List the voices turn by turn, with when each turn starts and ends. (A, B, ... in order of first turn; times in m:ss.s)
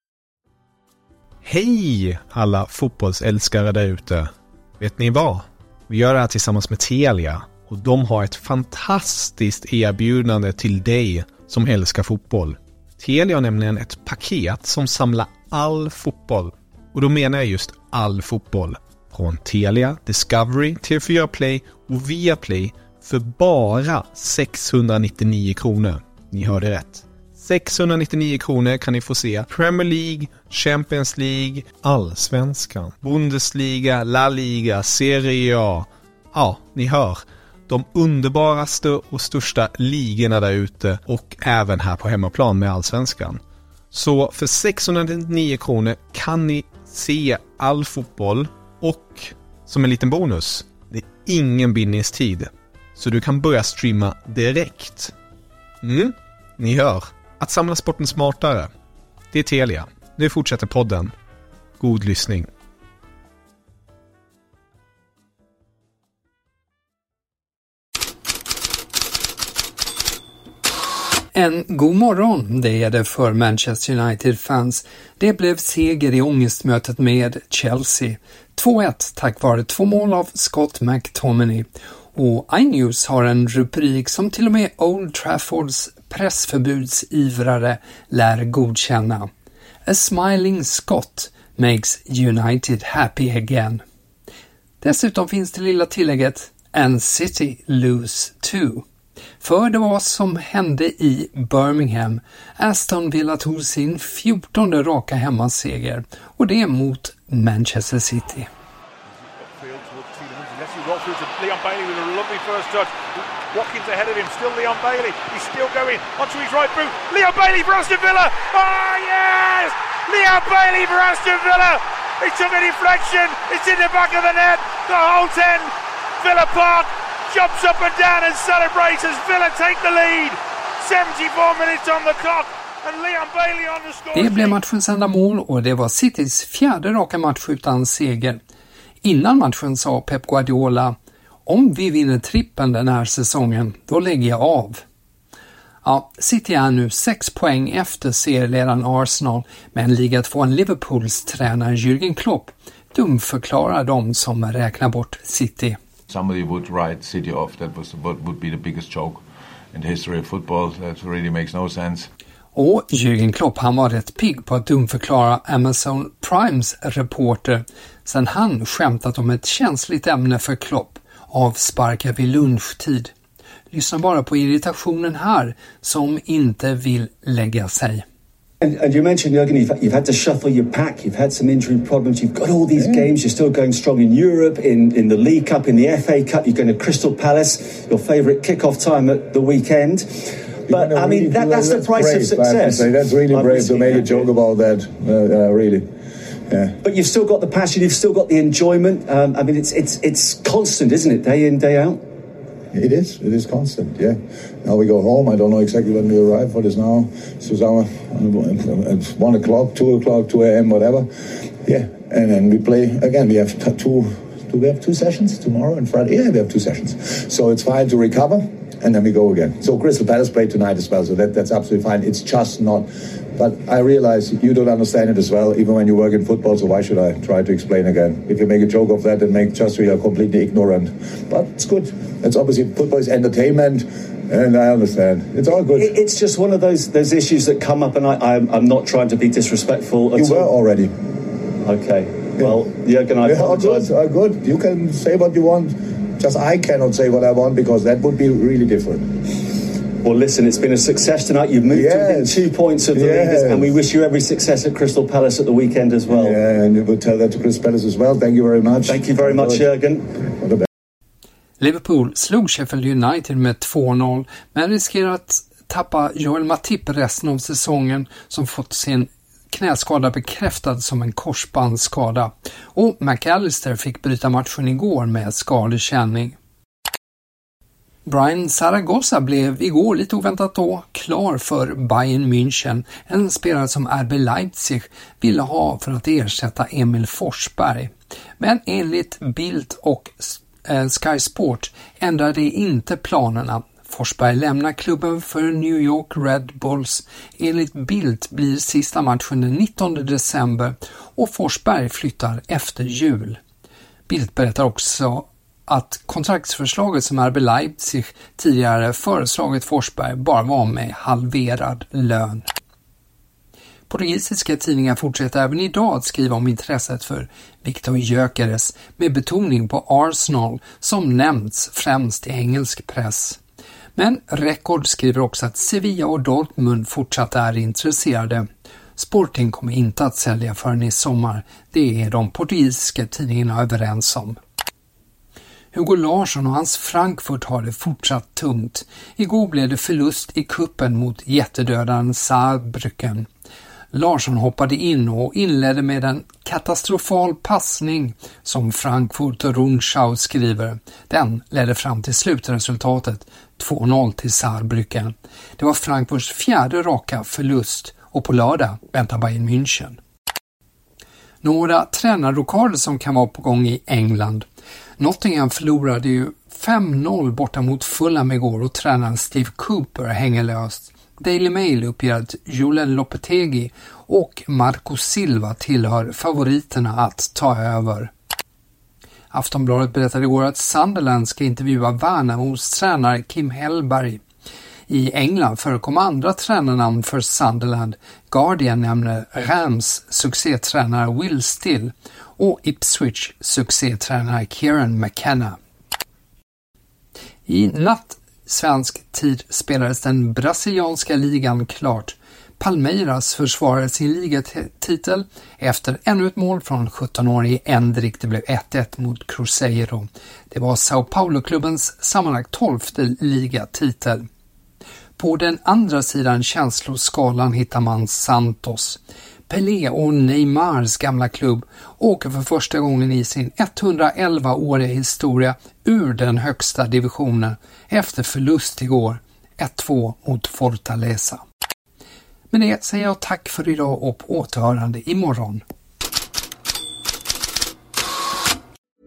0:01.4-0:43.4 A
0:43.9-0:55.1 A
0:55.8-0:58.7 A
0:59.3-1:01.1 A
1:01.8-1:02.5 A
1:11.3-1:29.3 B
1:29.8-1:33.8 B
1:34.8-1:38.8 B
1:39.4-1:48.5 B
1:49.4-2:14.6 C
2:14.1-2:18.4 B
2:19.0-2:24.8 B
2:25.8-2:35.8 B
2:36.1-2:42.1 D
2:42.5-2:53.1 B
2:53.7-2:58.0 B
2:58.6-3:14.3 E
3:02.8-3:03.1 F
3:10.7-3:15.8 F
3:16.5-3:16.8 F
3:16.8-3:22.0 E
3:22.7-3:31.1 F
3:31.6-3:55.9 F
3:55.7-4:00.5 E
4:00.1-4:00.9 F
4:01.6-4:03.9 E
4:03.2-4:09.3 F
4:10.0-4:16.4 E
4:11.7-4:13.8 F
4:16.1-4:19.7 F
4:18.8-4:20.1 E
4:20.3-4:20.7 F
4:21.6-4:36.4 B
4:38.0-5:03.4 B
5:04.1-5:12.5 B
5:13.9-5:23.4 B
5:24.0-5:34.4 B
5:35.7-5:43.3 B
5:43.9-6:00.0 B
6:01.4-6:04.4 B
6:05.0-6:18.1 B
6:19.3-6:24.2 B
6:24.9-6:35.6 B
6:37.5-6:54.2 B
6:55.2-7:11.4 B
7:12.5-7:15.6 B